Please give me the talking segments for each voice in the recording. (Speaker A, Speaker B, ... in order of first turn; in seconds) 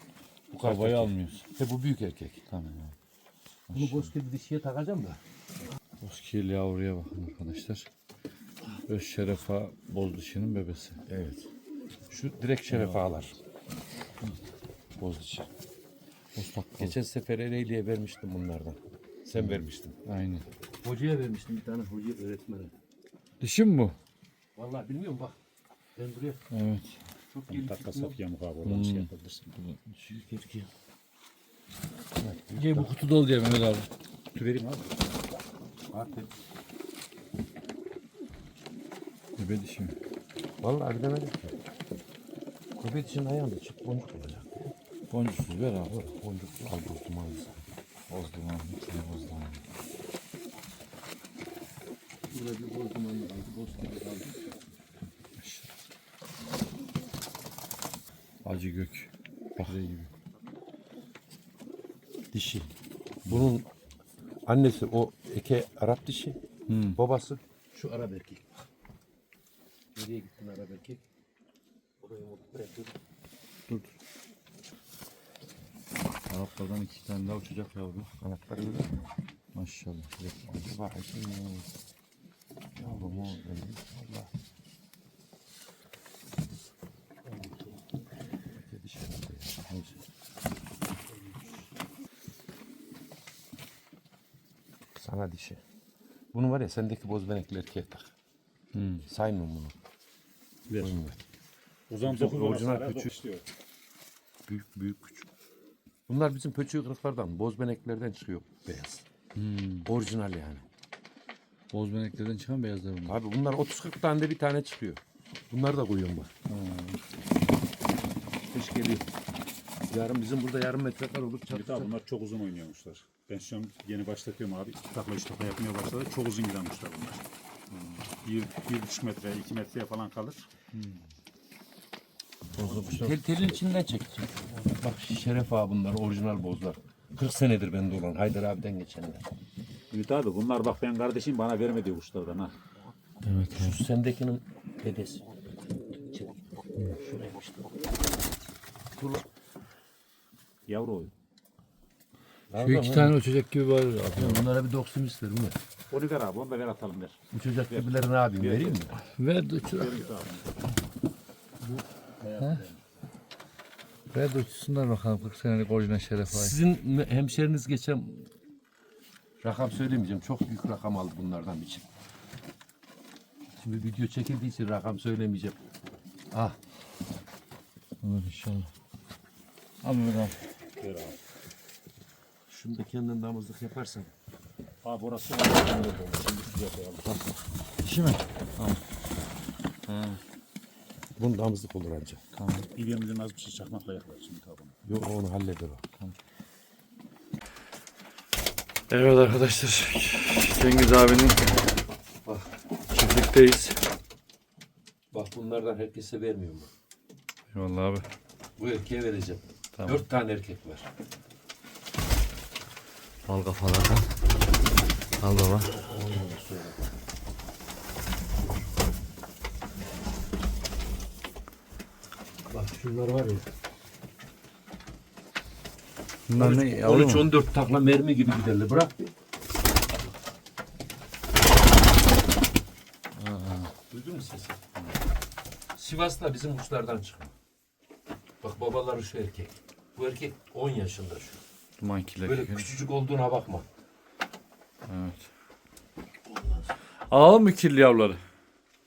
Speaker A: 0.5-2.4, 3.7-5.2, 11.1-11.5, 12.1-13.3, 15.0-15.5, 16.8-19.9, 20.8-22.8, 24.6-25.4, 25.9-26.4, 27.3-28.2, 30.1-30.7, 32.2-32.9, 35.9-36.3, 40.6-41.5, 42.8-44.7, 45.9-47.5, 52.3-54.4, 62.3-62.7, 63.2-63.6, 64.5-66.4, 67.0-68.4, 69.9-71.0, 72.0-73.0, 78.2-79.0, 80.5-81.7, 82.8-84.3, 88.7-90.0, 95.0-95.6, 96.3-98.1, 99.0-99.7, 100.8-101.2, 102.0-103.1, 104.5-105.3, 106.1-109.0, 109.8-110.6, 113.0-115.0, 115.5-116.3, 118.5-119.1, 119.9-121.9, 132.7-139.2, 143.5-147.7, 149.0-149.2, 152.5-153.2, 154.1-155.6, 157.3-158.9, 166.3-168.3, 169.4-171.8, 173.6-175.6, 176.3-176.6, 182.5-184.1, 191.2-192.2, 194.8-195.8, 205.1-206.7, 208.6-210.9, 215.6-216.8, 222.4-223.4, 226.3-229.1, 233.9-234.6, 235.8-237.3, 238.4-241.4, 242.2-243.7, 246.3-246.7
Speaker B: 0.6-1.4, 2.5-2.9, 3.7-4.1, 6.0-7.8, 8.9-11.0, 12.7-13.0, 16.3-16.9, 19.4-20.4, 23.4-23.9, 26.5-26.9, 28.6-30.0, 32.5-33.9, 39.4-39.9, 45.1-45.9, 48.1-49.6, 55.4-55.7, 58.4-60.1, 66.7-67.0, 76.3-78.1, 79.5-80.6, 98.7-99.0, 109.3-109.8, 111.7-113.2, 116.5-117.0, 132.6-133.1, 143.2-143.8, 152.6-154.4, 159.2-160.1, 162.4-162.6, 164.1-166.6, 178.0-178.7, 179.8-180.3, 187.8-188.8, 189.9-190.2, 192.3-192.7, 198.9-201.4, 202.9-203.8, 207.5-208.0, 209.8-210.0, 213.2-214.1, 215.2-215.7, 226.3-227.3, 233.2-233.7, 241.8-242.7, 244.9-245.2, 247.1-248.2
Speaker C: 27.5-29.6, 34.3-34.9, 100.7-100.9, 101.9-103.5, 121.5-127.2, 128.2-130.5, 139.9-142.5, 150.7-151.1, 155.9-157.2, 157.7-158.8, 159.7-160.5, 161.6-162.8, 180.8-181.2, 184.8-187.2, 192.7-194.7